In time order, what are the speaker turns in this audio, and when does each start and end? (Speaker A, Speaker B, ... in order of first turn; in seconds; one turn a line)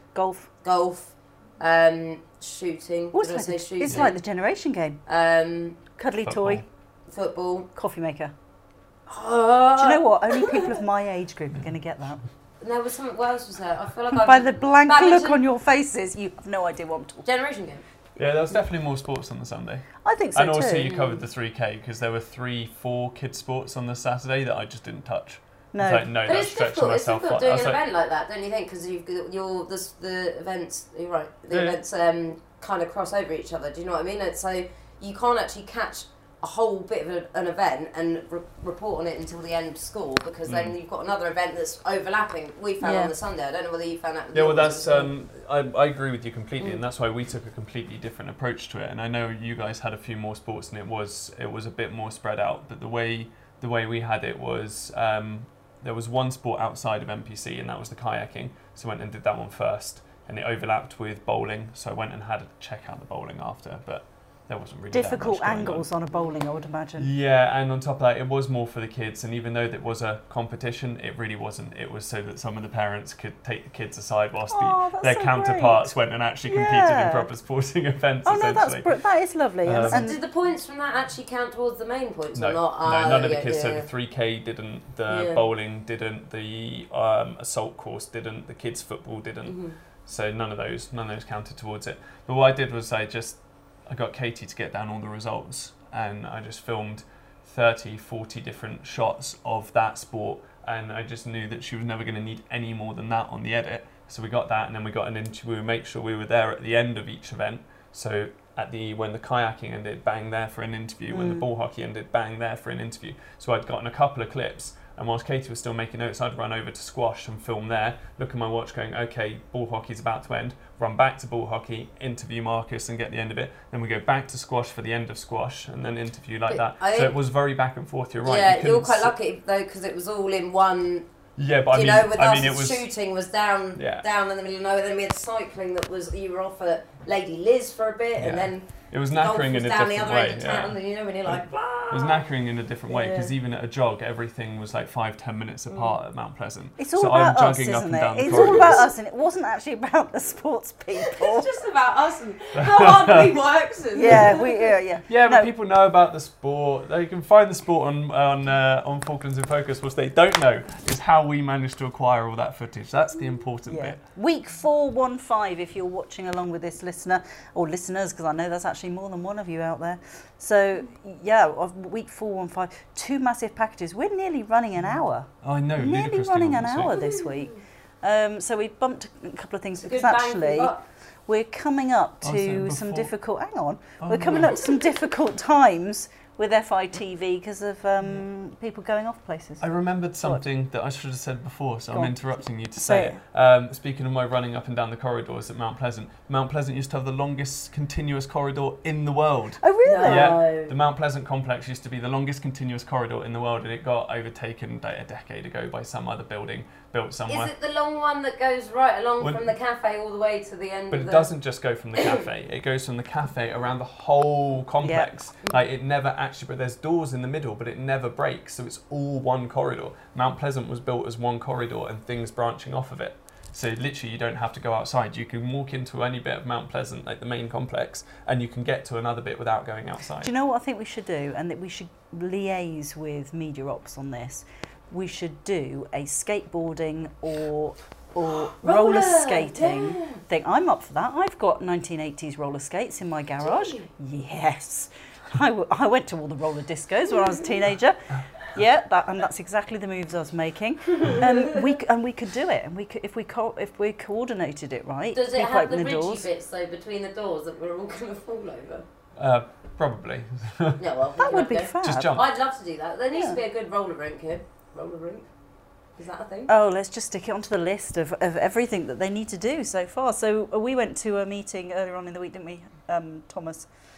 Speaker A: 0.1-0.5
Speaker B: 0.6-4.2
Speaker A: 3.1-5.0
Speaker B: 5.1-5.8
Speaker A: 6.0-6.7
Speaker C: 6.2-6.7
Speaker B: 7.1-7.7
Speaker A: 7.8-8.3
Speaker B: 9.1-10.8
Speaker A: 9.8-12.2
Speaker B: 12.6-15.4
Speaker A: 14.1-17.2
Speaker B: 17.2-17.8
Speaker C: 18.2-27.8
Speaker A: 20.0-20.9
Speaker B: 20.8-21.2
Speaker A: 25.7-26.1
Speaker B: 26.2-45.1
Speaker C: 31.5-31.8
Speaker C: 40.5-40.8
Speaker A: 42.8-43.1
Speaker C: 44.3-65.9
Speaker A: 64.9-67.1
Speaker B: 66.2-66.6
Speaker C: 67.0-79.0
Speaker A: 74.5-77.3
Speaker A: 78.2-80.2
Speaker C: 79.6-80.2
Speaker B: 79.8-83.9
Speaker C: 82.3-129.1
Speaker B: 85.1-85.4
Speaker B: 89.4-89.8
Speaker A: 111.1-111.5
Speaker B: 126.5-127.2
Speaker B: 128.2-131.1
Speaker C: 131.4-132.9
Speaker B: 131.7-142.3
Speaker C: 133.7-134.1
Speaker C: 138.2-148.9
Speaker B: 142.9-143.3
Speaker B: 145.7-145.9
Speaker A: 146.8-151.5
Speaker B: 148.2-148.8
Speaker B: 151.0-154.7
Speaker C: 152.6-153.3
Speaker A: 153.9-155.5
Speaker C: 155.1-164.0
Speaker A: 163.7-180.7
Speaker C: 175.4-176.9
Speaker B: 176.9-177.5
Speaker B: 179.8-180.8
Speaker A: 181.3-189.7
Speaker C: 182.2-183.1
Speaker C: 184.0-184.6
Speaker C: 189.6-207.5
Speaker A: 191.9-192.2
Speaker A: 192.7-193.2
Speaker A: 199.6-200.4
Speaker B: 199.8-200.7
Speaker B: 207.3-211.3
Speaker C: 209.2-209.5
Speaker C: 210.9-230.3
Speaker A: 214.8-215.1
Speaker A: 230.2-256.3
Speaker B: 238.3-240.2
Speaker B: 243.4-243.9
Speaker B: 251.1-251.4
Speaker B: 255.1-258.9
Speaker C: 259.1-260.8
Speaker B: 260.8-265.2
Speaker A: 261.2-262.1
Speaker C: 261.8-262.3
Speaker A: 263.1-263.4
Speaker B: 266.0-266.5
Speaker A: 266.5-273.7